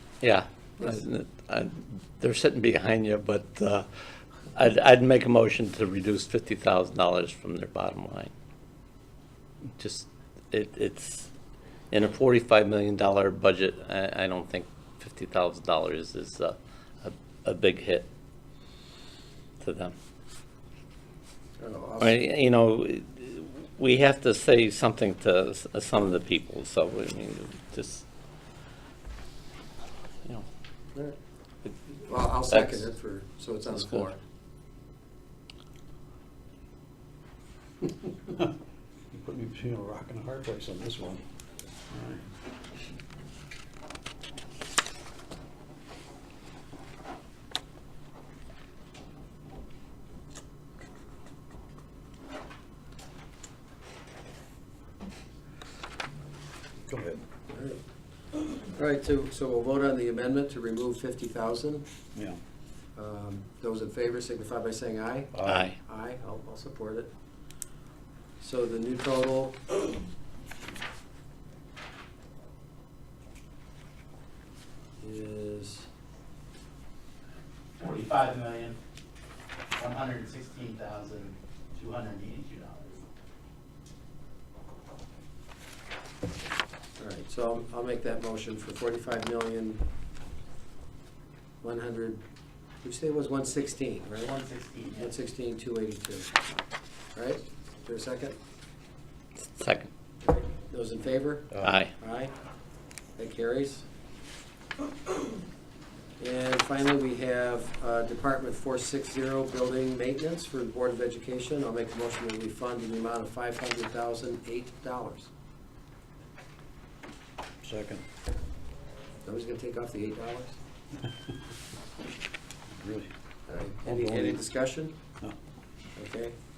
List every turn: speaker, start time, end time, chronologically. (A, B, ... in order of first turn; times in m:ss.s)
0:00.2-0:08.3 A
0:09.8-0:11.3 A
0:11.9-0:18.1 A
0:19.6-0:19.9 A
0:21.6-0:22.2 B
0:22.0-0:28.0 A
0:32.0-0:34.2 B
0:32.5-0:32.8 A
0:33.7-0:34.1 A
0:38.3-0:38.5 C
0:39.1-0:41.2 C
0:41.9-0:42.3 C
0:56.9-0:57.2 C
0:57.5-0:57.8 B
0:58.6-1:01.8 B
1:03.0-1:07.1 B
1:05.3-1:05.8 C
1:05.4-1:05.8 A
1:08.4-1:09.6 B
1:15.0-1:15.9 B
1:17.8-1:18.8 D
1:19.8-1:23.0 D
1:27.0-1:29.8 B
1:31.6-1:32.2 B
1:32.8-1:34.4 B
1:34.2-1:35.2 D
1:35.0-1:36.3 B
1:37.1-1:38.4 B
1:39.4-1:39.9 A
1:40.2-1:42.3 B
1:41.5-1:41.8 C
1:41.6-1:41.9 A
1:43.2-1:43.8 B
1:46.2-1:55.3 B
1:57.6-1:58.0 C
1:59.2-2:00.6 B
2:02.7-2:03.1 C
2:03.5-2:04.9 B
2:03.8-2:04.4 C
2:06.0-2:06.3 B